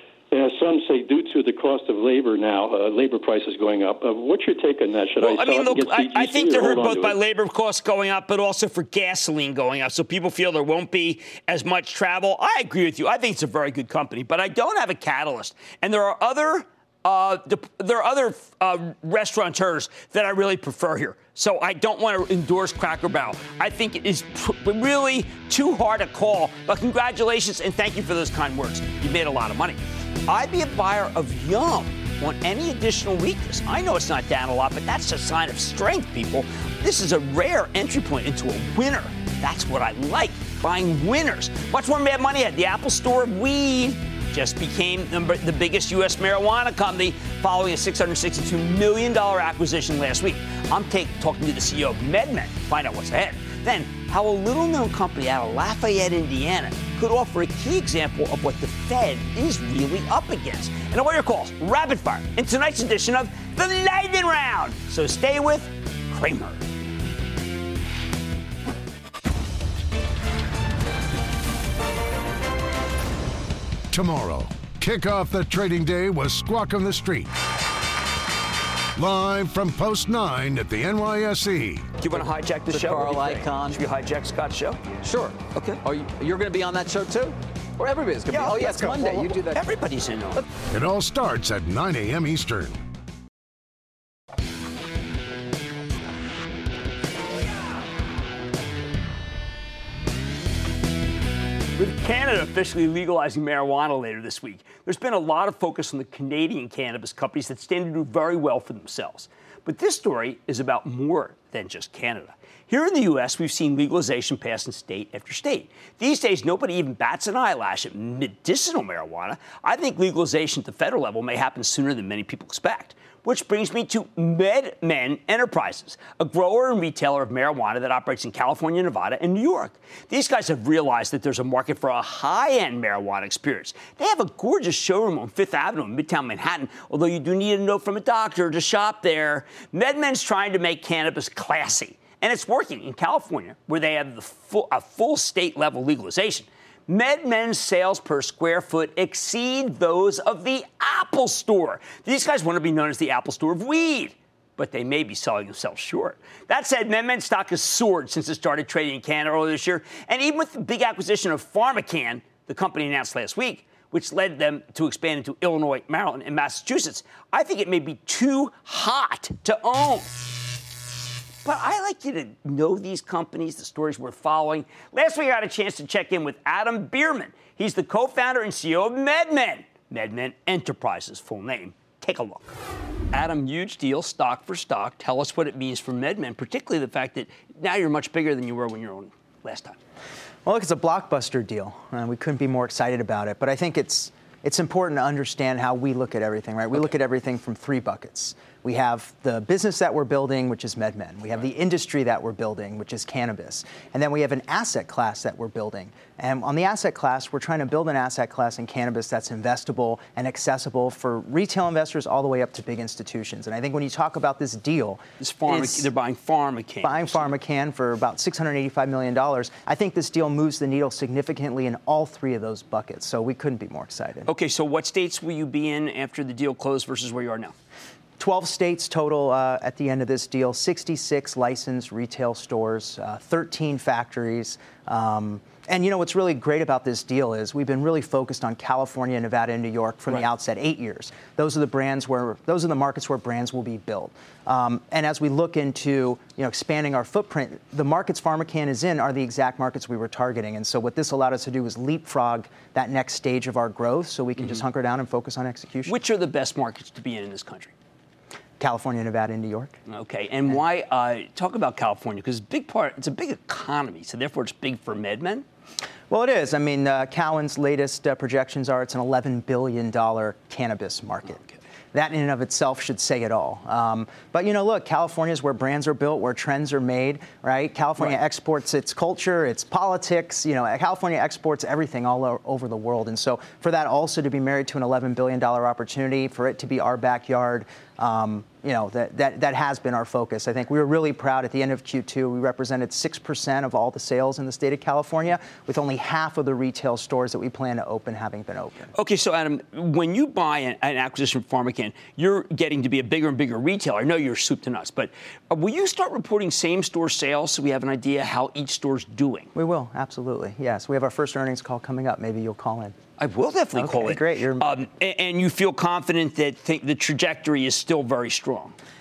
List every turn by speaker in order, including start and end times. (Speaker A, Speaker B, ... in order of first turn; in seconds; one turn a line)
Speaker A: 0.3-7.2
Speaker B: 5.2-66.6
Speaker C: 73.9-77.3
Speaker C: 79.0-81.9
Speaker B: 82.0-84.9
Speaker D: 82.1-83.9
Speaker D: 84.9-89.7
Speaker B: 85.5-85.8
Speaker B: 88.3-90.5
Speaker C: 90.7-92.8
Speaker B: 101.8-170.1
Speaker B: 171.4-182.5
Speaker B: 183.1-189.8
Speaker E: 190.5-215.9
Speaker B: 215.2-217.3
Speaker E: 216.8-224.3
Speaker B: 224.3-227.6
Speaker E: 228.2-256.0
Speaker B: 255.9-257.7
Speaker E: 258.6-259.8
Speaker B: 259.9-265.4
Speaker E: 266.1-271.4
Speaker E: 271.9-298.9
Speaker B: 298.9-309.5
Speaker E: 309.6-312.9
Speaker B: 313.2-318.8
Speaker E: 313.8-314.8